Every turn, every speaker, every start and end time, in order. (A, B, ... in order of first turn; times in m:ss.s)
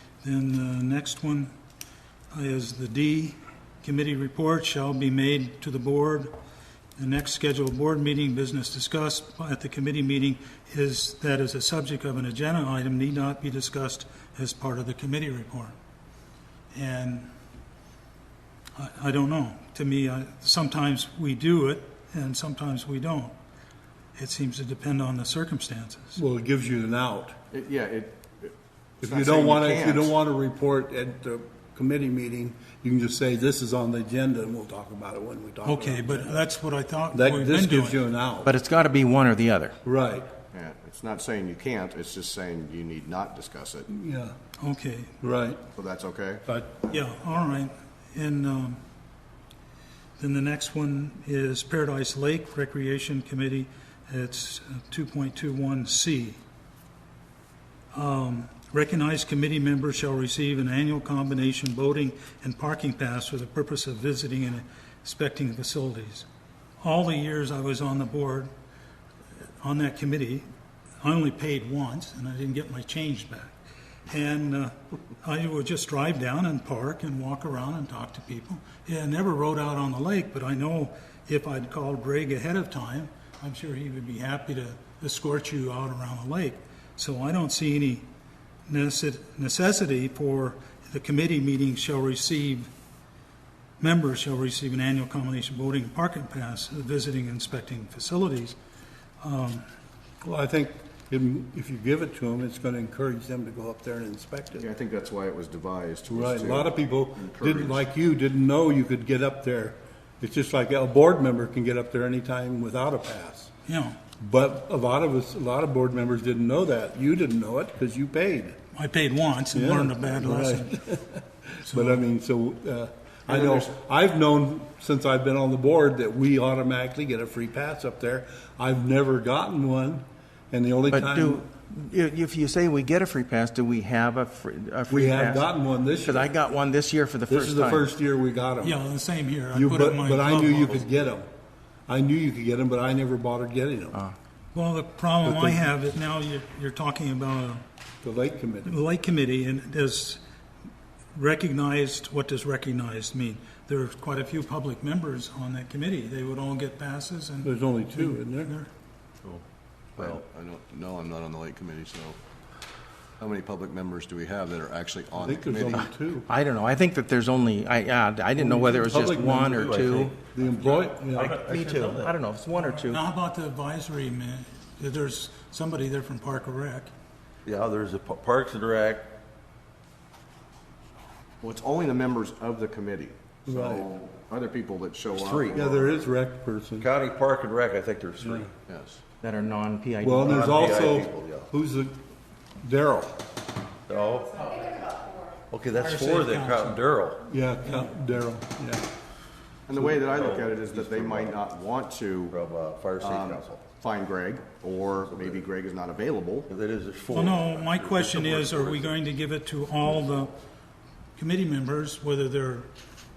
0:00.2-0:01.5 A
0:02.3-0:06.3 A
0:07.0-0:15.8 A
0:16.7-0:17.3 A
0:18.8-0:23.3 A
0:24.2-0:26.2 A
0:26.2-0:27.4 B
0:27.5-0:30.2 C
0:29.0-0:36.4 B
0:35.6-0:38.0 A
0:37.1-0:38.5 B
0:38.4-0:39.8 D
0:39.8-0:40.3 B
0:40.5-0:43.9 C
0:43.9-0:44.4 B
0:44.6-0:45.1 A
0:45.2-0:45.6 B
0:45.8-0:46.4 C
0:46.5-0:46.8 B
0:46.9-0:48.8 A
0:50.2-0:56.4 A
0:57.9-1:06.3 A
1:06.8-1:08.5 A
1:09.6-1:10.5 A
1:11.0-1:13.6 A
1:14.1-1:28.1 A
1:28.7-1:32.7 A
1:33.8-1:38.6 A
1:39.2-1:39.7 A
1:40.2-1:44.7 B
1:44.6-1:47.8 C
1:46.1-1:53.5 B
1:53.7-1:54.0 A
1:54.2-1:58.6 B
1:58.7-2:00.8 A
1:59.5-2:11.5 B
2:01.7-2:02.0 A
2:03.3-2:03.7 C
2:10.9-2:15.5 D
2:14.9-2:16.3 B
2:16.0-2:17.9 D
2:17.3-2:18.8 B
2:18.6-2:20.9 A
2:19.5-2:21.3 B
2:21.9-2:24.0 B
2:24.5-2:27.6 A
2:25.2-2:25.6 B
2:28.0-2:28.8 B
2:28.6-2:30.2 A
2:31.1-2:38.7 A
2:37.4-2:38.5 B
2:40.0-2:42.2 C
2:43.2-2:45.9 C
2:45.2-2:46.3 B
2:46.3-2:50.1 D
2:48.4-2:51.3 B
2:50.8-2:52.1 E
2:51.1-2:53.0 D
2:52.5-2:56.9 A
2:57.5-2:59.1 E
3:01.4-3:06.0 C
3:03.5-3:03.9 B
3:05.5-3:06.9 B
3:06.8-3:08.5 E
3:08.2-3:08.5 B
3:08.7-3:09.0 C
3:09.2-3:11.0 D
3:10.0-3:12.0 B
3:10.2-3:11.3 E
3:12.6-3:13.2 B
3:13.9-3:14.8 E
3:15.5-3:17.2 E
3:15.7-3:16.8 A
3:17.3-3:18.8 B
3:17.6-3:17.9 A
3:19.7-3:22.4 C
3:22.3-3:23.0 E
3:23.0-3:26.5 C
3:26.5-3:28.9 E
3:27.1-3:30.4 A
3:31.2-3:32.7 A